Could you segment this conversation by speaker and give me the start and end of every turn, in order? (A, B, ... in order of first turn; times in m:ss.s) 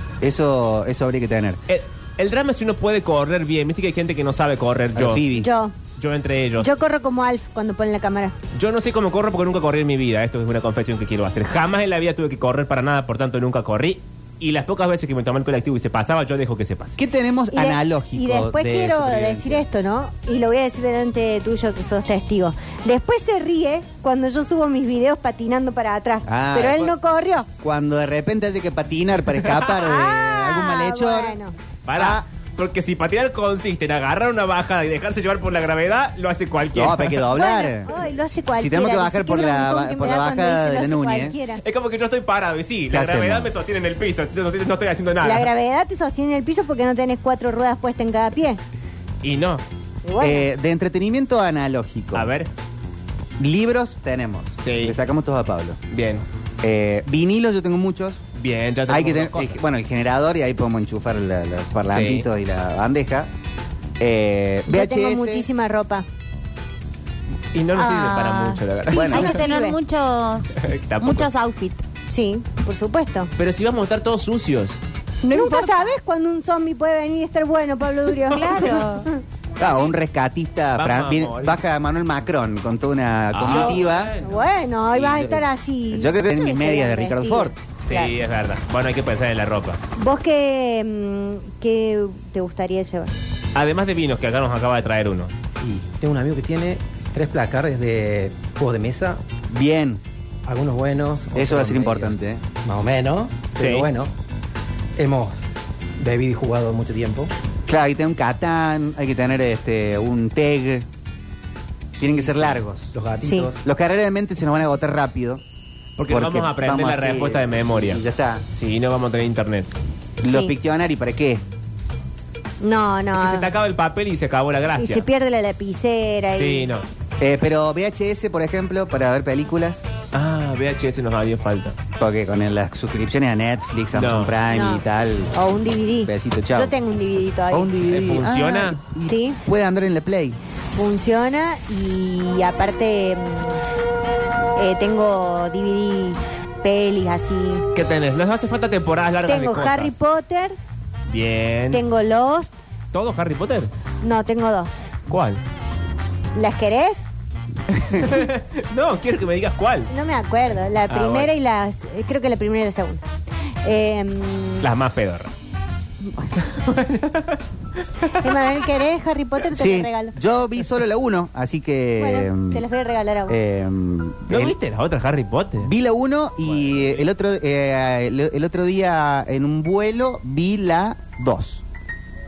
0:00.2-0:01.6 A
0:01.7-0:05.2 B
0:04.9-0:05.5 A
0:05.4-0:05.8 C
0:06.0-0:06.7 B
0:06.6-0:08.4 C
0:08.5-0:17.0 B
0:17.0-0:19.7 A
0:17.5-0:27.5 C
0:26.3-0:27.0 A
0:27.6-0:31.4 A
0:29.8-0:31.6 C
0:31.9-0:37.3 B
0:32.0-0:32.2 A
0:36.8-0:41.4 A
0:37.3-0:41.6 C
0:41.6-0:45.5 B
0:42.9-0:43.5 A
0:45.2-0:48.6 C
0:49.2-0:49.6 B
0:50.0-0:50.5 C
0:50.2-0:52.3 A
0:52.1-0:52.5 B
0:53.4-0:55.8 A
0:54.6-0:55.0 B
0:55.9-0:56.2 B
0:56.6-0:58.2 A
0:58.4-0:59.6 B
0:58.9-1:03.3 A
1:01.9-1:02.3 B
1:04.0-1:05.5 A
1:04.7-1:06.1 C
1:07.5-1:09.4 B
1:07.7-1:11.8 D
1:08.9-1:09.8 C
1:10.6-1:11.3 B
1:12.1-1:13.3 C
1:13.4-1:14.8 B
1:15.2-1:16.0 D
1:15.2-1:19.2 C
1:18.3-1:19.1 D
1:19.6-1:24.1 A
1:20.8-1:21.6 B
1:23.3-1:24.4 B
1:23.5-1:28.1 C
1:24.9-1:27.6 A
1:27.9-1:29.8 B
1:30.0-1:33.1 C
1:33.6-1:35.3 B
1:35.6-1:39.2 E
1:39.5-1:40.0 A
1:40.5-1:44.1 E
1:41.4-1:42.4 A
1:43.6-1:43.9 B
1:45.0-1:47.3 E
1:47.7-1:50.9 A
1:52.0-1:52.9 A
1:52.9-1:53.6 E
1:53.2-1:53.5 C
1:53.6-1:55.4 A
1:56.0-1:59.7 B
1:56.1-1:58.4 A
2:00.2-2:01.4 A
2:00.2-2:00.6 C
2:02.6-2:03.5 C
2:03.1-2:05.0 B
2:04.8-2:06.7 C
2:06.4-2:06.9 B
2:07.2-2:09.9 A
2:10.1-2:11.8 B
2:12.0-2:15.4 A
2:13.9-2:14.4 B
2:14.5-2:17.7 C
2:16.0-2:16.7 A
2:17.5-2:20.4 A
2:17.9-2:18.8 B
2:19.0-2:19.4 C
2:20.7-2:23.6 C
2:24.6-2:27.7 C
2:27.8-2:29.9 B
2:29.3-2:30.6 C
2:31.1-2:31.8 B
2:31.7-2:32.5 C
2:32.9-2:33.7 B
2:34.0-2:34.7 C
2:35.1-2:35.4 B
2:36.4-2:37.1 C
2:37.7-2:39.9 B
2:39.9-2:43.0 C
2:40.9-2:41.3 B
2:43.6-2:44.7 C
2:44.6-2:45.3 B
2:46.1-2:46.3 C
2:46.3-2:48.4 B
2:48.2-2:50.1 C
2:49.5-2:52.6 A
2:52.0-2:53.4 C
2:53.3-2:54.6 A
2:54.3-2:55.7 B
2:55.6-3:01.6 A
2:56.4-2:57.1 B